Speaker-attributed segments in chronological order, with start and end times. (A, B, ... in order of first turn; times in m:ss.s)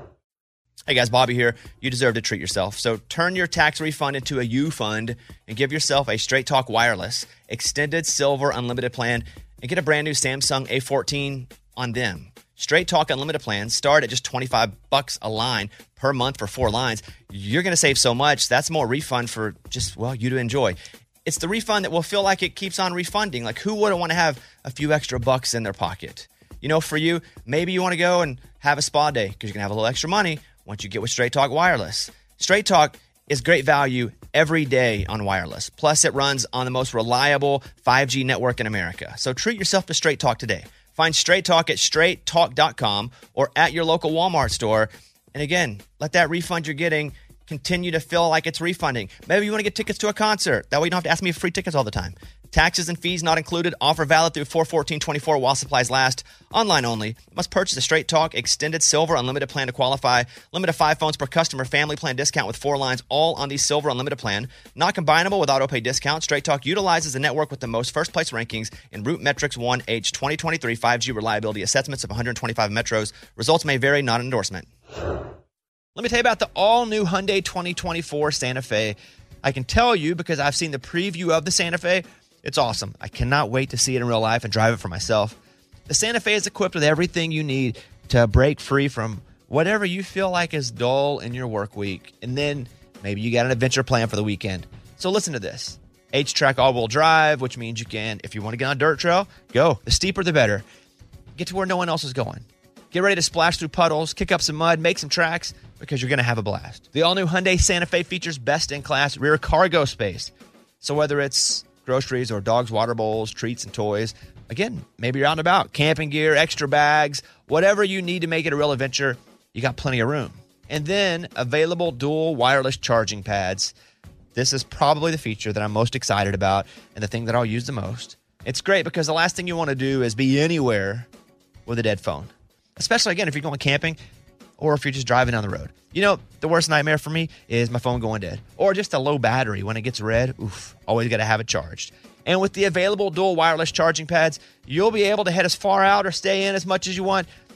0:00.9-1:14.7 A
1:16.0-1:25.4 A
1:25.9-1:40.6 A
1:41.4-2:03.7 A
2:04.3-2:11.1 A
2:11.6-2:14.0 A
2:14.6-2:27.3 A